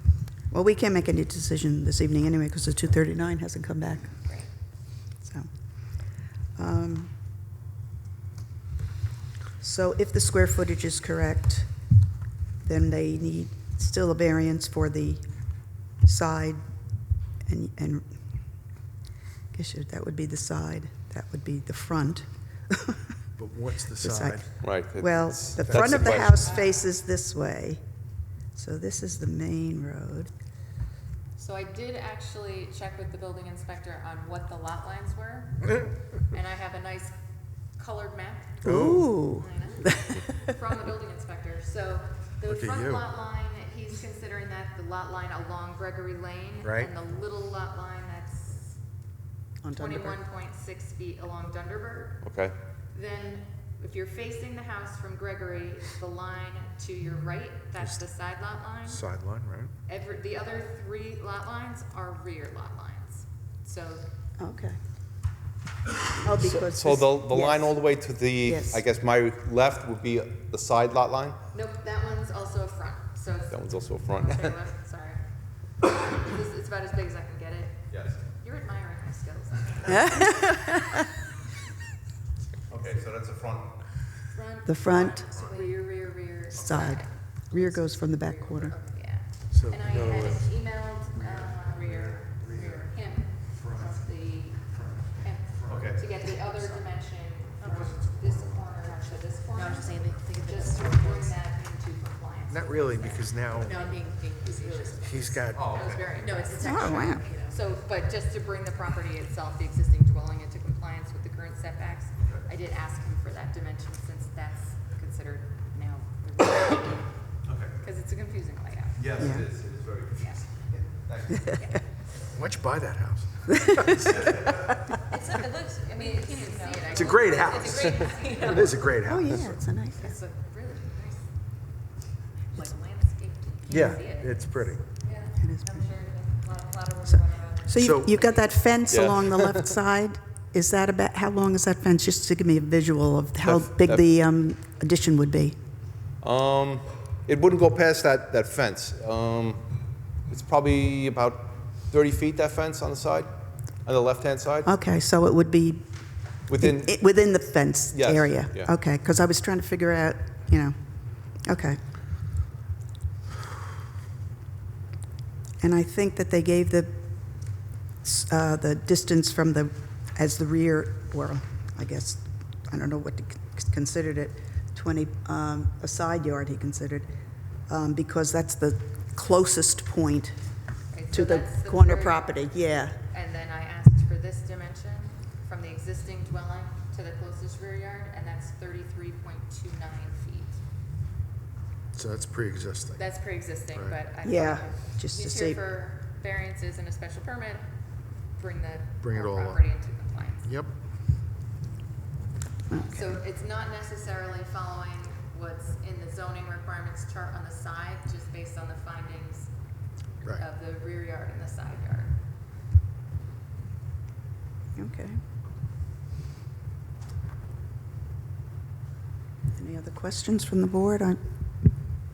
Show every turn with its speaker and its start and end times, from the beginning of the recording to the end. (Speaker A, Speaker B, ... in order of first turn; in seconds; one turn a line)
Speaker A: 0.5-4.2
Speaker A: 5.2-5.5
Speaker A: 6.5-7.1
Speaker A: 9.6-11.7
Speaker A: 12.6-15.2
Speaker A: 16.0-16.6
Speaker A: 17.4-18.1
Speaker A: 19.5-23.0
Speaker B: 23.4-24.6
Speaker A: 24.0-27.8
Speaker C: 24.6-26.6
Speaker B: 25.6-26.4
Speaker D: 26.4-26.8
Speaker A: 28.5-30.3
Speaker D: 31.4-37.1
Speaker D: 37.8-48.8
Speaker B: 38.6-39.1
Speaker A: 38.6-40.2
Speaker B: 42.4-43.1
Speaker B: 46.6-46.9
Speaker A: 49.6-50.2
Speaker D: 49.7-52.2
Speaker C: 52.2-52.5
Speaker D: 52.9-59.0
Speaker B: 58.9-59.7
Speaker D: 59.9-64.0
Speaker A: 64.4-64.8
Speaker A: 66.2-67.8
Speaker C: 66.4-71.4
Speaker A: 68.4-68.8
Speaker D: 71.5-75.2
Speaker C: 73.5-74.6
Speaker D: 75.9-80.8
Speaker C: 77.9-78.2
Speaker A: 79.9-80.9
Speaker C: 82.7-83.8
Speaker D: 84.3-117.2
Speaker A: 84.6-85.3
Speaker E: 85.3-85.8
Speaker A: 86.5-88.8
Speaker B: 89.5-96.0
Speaker C: 95.7-96.0
Speaker E: 96.4-96.9
Speaker E: 97.6-98.0
Speaker B: 97.6-98.7
Speaker E: 98.7-101.4
Speaker B: 102.5-103.8
Speaker E: 103.6-107.6
Speaker B: 105.0-105.7
Speaker C: 105.5-106.2
Speaker A: 106.6-107.3
Speaker C: 117.4-117.7
Speaker D: 117.8-119.2
Speaker C: 119.0-121.8
Speaker A: 119.2-119.5
Speaker D: 120.2-120.4
Speaker D: 121.5-121.8
Speaker B: 122.3-124.0
Speaker C: 124.0-124.6
Speaker E: 125.1-128.9
Speaker D: 125.1-129.0
Speaker B: 126.9-129.5
Speaker A: 129.0-130.2
Speaker D: 130.0-131.3
Speaker D: 132.5-135.3
Speaker A: 133.7-134.0
Speaker B: 133.7-134.8
Speaker E: 135.1-138.5
Speaker A: 135.4-135.9
Speaker A: 137.1-145.6
Speaker B: 137.7-138.2
Speaker C: 138.9-139.7
Speaker C: 143.4-144.1
Speaker C: 146.2-149.7
Speaker C: 150.3-153.3
Speaker C: 153.8-154.7
Speaker A: 154.6-155.8
Speaker C: 156.5-157.0
Speaker A: 156.5-161.8
Speaker C: 157.9-158.7
Speaker A: 165.6-177.1
Speaker A: 177.7-180.3
Speaker D: 180.9-182.3
Speaker A: 181.1-182.9
Speaker D: 183.1-190.6
Speaker B: 191.9-193.1
Speaker D: 193.0-197.6
Speaker B: 193.7-194.0
Speaker A: 194.2-195.6
Speaker D: 198.3-200.5
Speaker B: 199.0-199.7
Speaker B: 200.4-200.7
Speaker A: 202.7-203.1
Speaker D: 202.8-209.5
Speaker D: 210.3-212.1
Speaker A: 214.8-215.2
Speaker A: 219.5-221.2